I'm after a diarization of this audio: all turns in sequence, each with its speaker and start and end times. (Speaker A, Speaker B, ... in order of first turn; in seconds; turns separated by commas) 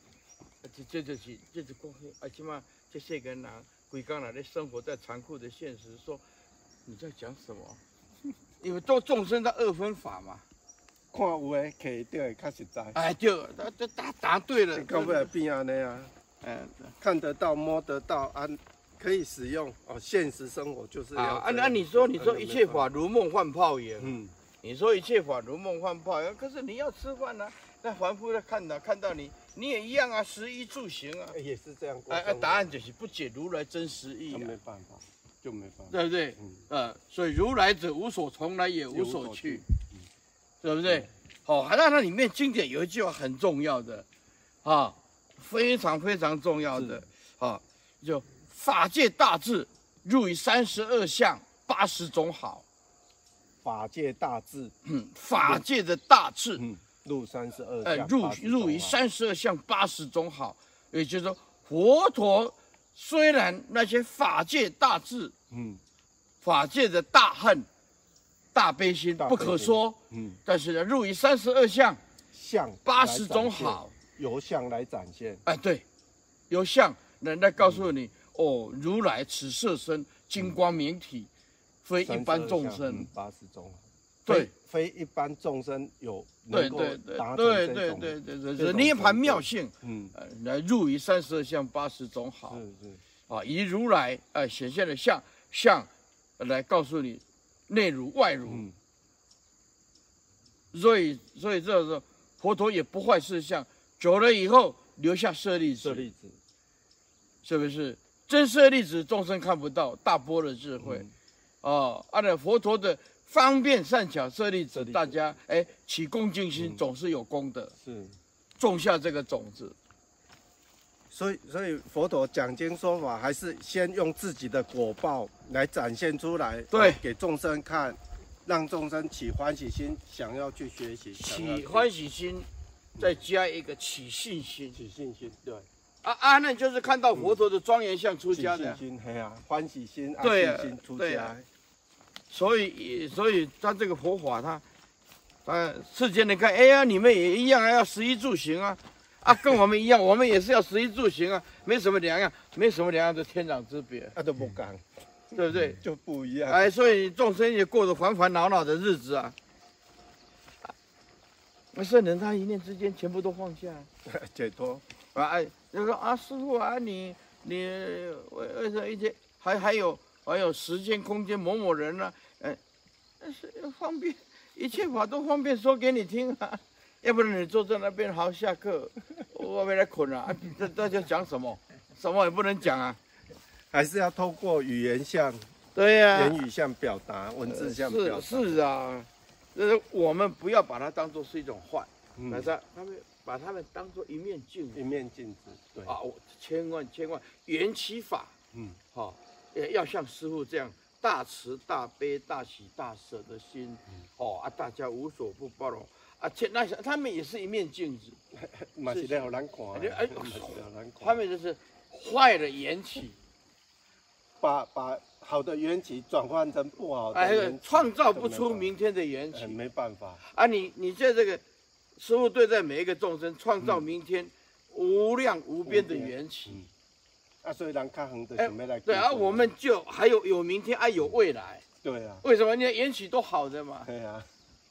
Speaker A: 0.6-6.2, Speaker A: 6.9-7.8, Speaker A: 8.6-10.4, Speaker B: 11.1-13.0, Speaker A: 12.9-15.3, Speaker B: 14.7-16.1, Speaker A: 16.4-16.9, Speaker B: 17.0-22.9, Speaker A: 21.1-31.4, Speaker B: 24.0-24.3, Speaker B: 31.3-32.7, Speaker A: 32.1-34.6, Speaker B: 34.3-36.6, Speaker A: 35.9-39.6, Speaker B: 38.9-40.1, Speaker A: 40.6-44.1, Speaker A: 44.6-52.6, Speaker B: 46.7-47.0, Speaker B: 53.6-54.8, Speaker A: 54.9-56.6, Speaker B: 55.4-55.6, Speaker B: 56.6-59.0, Speaker A: 57.8-65.3, Speaker B: 65.5-65.8, Speaker A: 66.4-67.7, Speaker A: 68.5-72.0, Speaker B: 69.2-70.4, Speaker B: 72.3-75.4, Speaker A: 72.8-73.9, Speaker A: 75.5-75.8, Speaker A: 76.5-81.3, Speaker B: 77.6-77.9, Speaker A: 81.8-83.1, Speaker B: 82.0-90.1, Speaker A: 84.3-84.5, Speaker A: 86.5-92.6, Speaker B: 92.5-93.0, Speaker A: 93.3-95.9, Speaker A: 96.4-98.7, Speaker B: 98.5-98.8, Speaker A: 100.7-106.1, Speaker B: 105.8-106.4, Speaker A: 107.4-111.1, Speaker B: 110.8-111.1, Speaker A: 111.6-117.7, Speaker B: 114.7-115.2, Speaker B: 116.5-116.8, Speaker B: 117.8-118.2, Speaker A: 118.6-119.8, Speaker B: 121.1-131.9, Speaker A: 126.7-127.0, Speaker A: 131.1-134.8, Speaker B: 134.7-135.7, Speaker A: 136.0-138.8, Speaker B: 137.1-137.4, Speaker B: 138.3-141.5, Speaker A: 140.2-141.3, Speaker A: 142.3-144.6, Speaker A: 145.4-154.2, Speaker B: 154.2-154.8, Speaker A: 155.3-155.8, Speaker B: 155.3-156.7, Speaker A: 156.5-159.4, Speaker A: 161.7-163.9, Speaker B: 164.1-164.8, Speaker A: 165.1-172.6, Speaker A: 173.2-183.0, Speaker B: 183.7-185.4, Speaker A: 185.8-186.4, Speaker B: 186.1-188.6, Speaker A: 187.5-194.8, Speaker B: 192.2-192.5, Speaker B: 194.8-196.0, Speaker A: 195.8-198.3, Speaker B: 198.5-198.8, Speaker A: 198.9-208.2, Speaker B: 208.3-211.2, Speaker A: 208.9-213.2, Speaker B: 214.4-218.8, Speaker A: 217.1-219.6, Speaker B: 219.3-220.2, Speaker A: 220.2-221.4, Speaker A: 222.0-226.7, Speaker B: 225.7-226.7, Speaker B: 227.4-229.5, Speaker A: 228.4-231.6, Speaker B: 231.8-232.2, Speaker A: 232.2-233.9, Speaker B: 233.8-234.3